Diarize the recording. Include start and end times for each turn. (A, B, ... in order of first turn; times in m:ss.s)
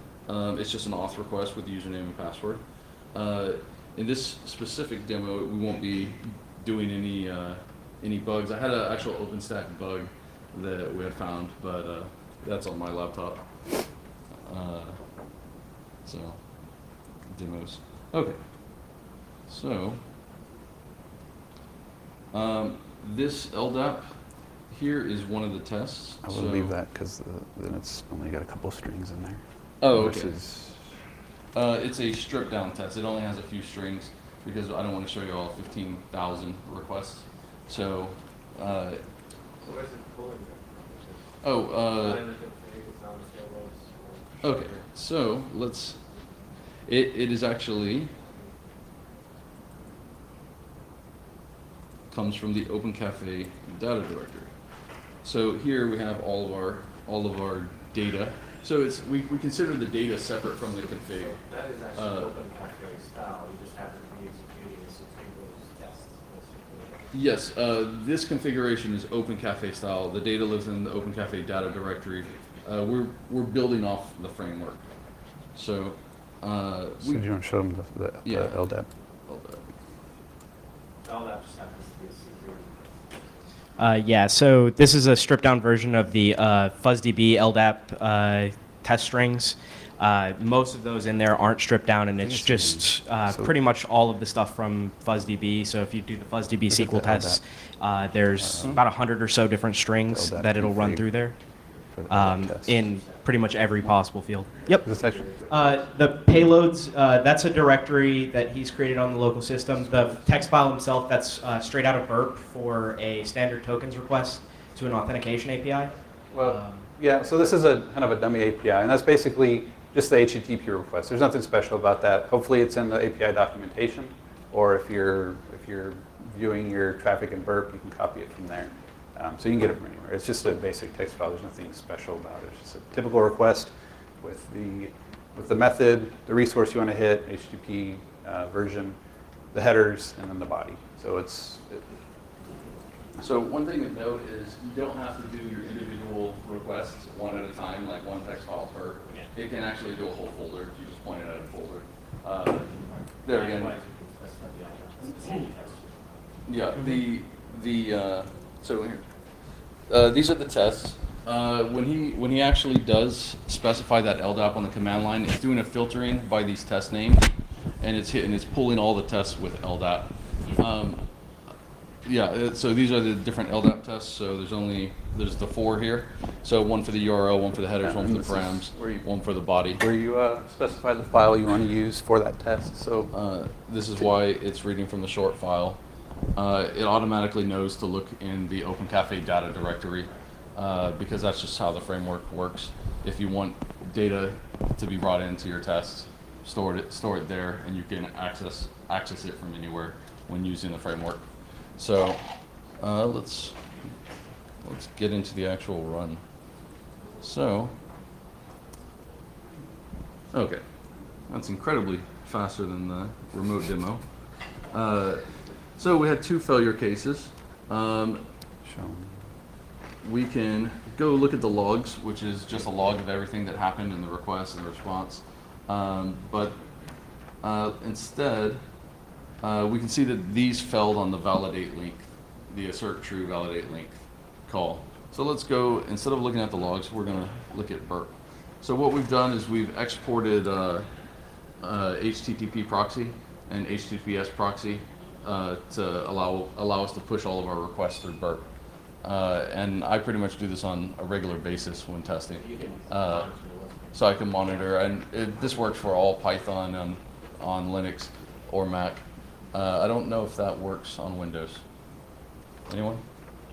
0:00.2-0:15.4 A
0:16.0-0:20.0 A
0:22.3-0:26.7 A
0:26.2-0:30.8 B
0:29.8-0:30.4 A
0:31.5-0:39.0 A
0:39.6-0:44.8 C
0:41.4-0:42.2 A
0:44.4-0:46.0 A
0:46.9-0:48.1 A
0:52.1-1:01.4 A
1:00.9-1:07.1 C
1:01.9-1:02.3 A
1:07.1-1:17.3 A
1:17.0-1:18.9 B
1:18.2-1:19.6 A
1:21.0-1:23.1 C
1:23.8-1:44.9 D
1:32.2-1:33.5 B
1:36.7-1:37.4 B
1:38.4-1:38.8 B
1:40.1-1:42.8 B
1:42.7-1:43.6 C
1:44.5-1:46.1 C
1:44.8-1:45.2 B
1:45.5-1:55.9 D
1:49.8-1:50.2 B
1:56.3-2:19.0 B
1:56.5-1:56.8 D
2:19.5-2:21.9 B
2:23.2-2:32.7 A
2:32.5-2:36.3 C
2:33.2-2:33.8 A
2:36.5-2:39.1 A
2:39.9-2:51.1 A
2:52.0-2:59.8 A
2:57.8-2:59.0 B
2:59.8-3:03.1 B
3:03.1-3:05.8 A
3:06.3-3:23.7 A
3:24.6-3:26.3 A
3:27.2-3:27.8 A
3:30.3-3:30.6 A
3:31.3-3:38.2 A
3:38.6-3:39.2 B
3:40.0-3:46.6 A
3:47.4-3:48.6 A
3:49.4-4:00.9 A
4:01.6-4:08.5 A
4:09.0-4:13.3 A
4:12.4-4:14.6 C
4:13.9-4:21.6 A
4:22.7-4:23.0 A